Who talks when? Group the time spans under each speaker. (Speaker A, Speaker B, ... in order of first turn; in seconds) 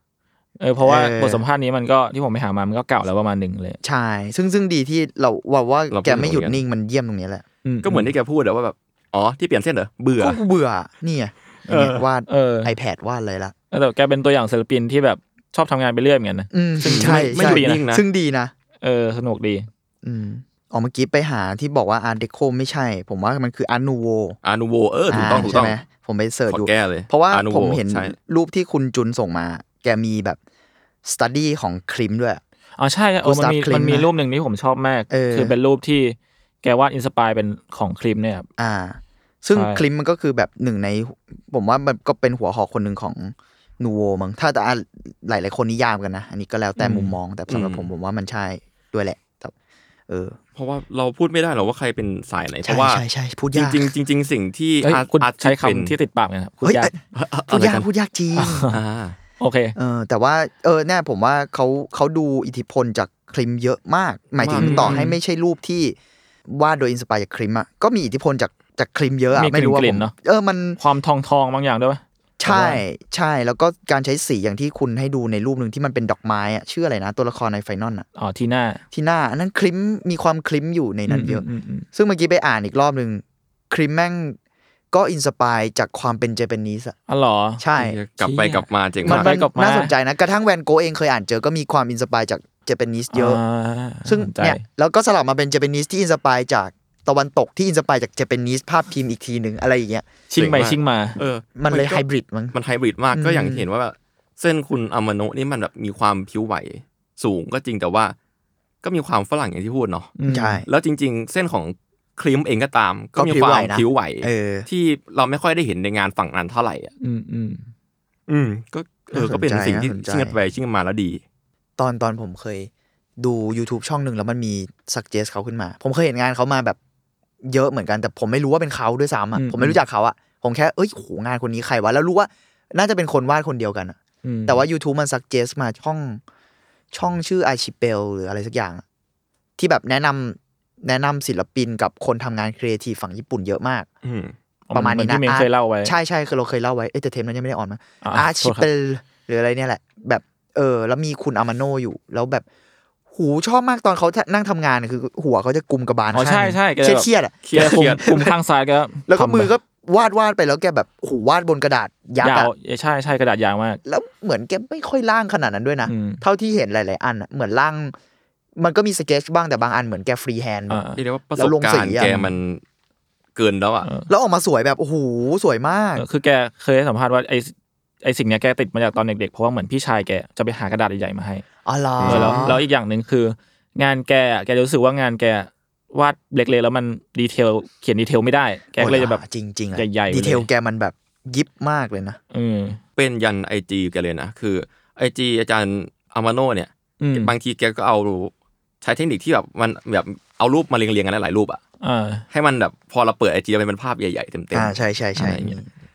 Speaker A: 0.6-3.8, 7.6-8.1, 12.3-12.7, 13.7-17.8, 18.8-19.7, 32.8-38.5, 39.5-39.8, 46.8-47.1, 54.8-56.9, 58.4-58.7, 59.4-59.8, 64.6-65.2, 69.3-70.1, 70.8-72.8, 78.2-78.8, 81.1-81.8, 87.1-87.6, 88.2-89.9, 93.1-94.6, 100.3-101.2, 110.2-110.6, 117.0-117.7, 129.3-129.8, 134.2-134.7, 144.7-145.9, 148.0-148.7, 156.1-159.5, 162.2-163.8, 165.9-166.2, 170.7-171.0, 172.0-172.4, 173.8-174.1, 176.0-181.4, 182.0-190.5, 192.3-192.8, 197.0-197.3, 201.8-202.2
Speaker B: 0.8-1.4, 3.8-7.4, 10.2-13.5, 16.5-18.5, 20.0-24.4, 25.1-30.4, 31.0-32.4, 33.2-34.1, 35.1-35.5, 38.6-49.5, 50.1-50.4, 52.6-53.9, 56.6-58.7, 59.8-66.0, 66.5-70.8, 72.4-78.0, 78.9-84.4, 84.9-87.0, 87.6-88.0, 89.0-93.4, 94.0-100.0, 101.5-102.5, 103.1-103.7, 110.2-110.7, 113.2-114.7, 119.1-120.4, 121.8-126.8, 127.4-136.2, 136.9-138.8, 139.6-143.9, 144.7-152.4, 153.1-158.3, 159.1-162.5, 163.8-167.9, 168.6-170.8, 171.3-172.1, 174.1-176.0, 181.6-182.6, 188.8-192.2, 204.5-205.7
Speaker C: 5.9-6.6, 7.8-10.4, 11.7-12.0, 16.8-18.0, 24.4-25.8, 26.5-28.1, 47.5-47.9, 50.5-55.9, 57.1-57.9, 58.7-59.2, 64.4-65.0, 87.8-89.3, 100.4-108.1, 108.8-110.1, 110.7-116.9, 118.3-121.2, 144.0-144.3, 157.4-158.1, 171.0-172.6, 173.3-173.9, 182.0-182.5, 193.0-201.6, 202.3-205.6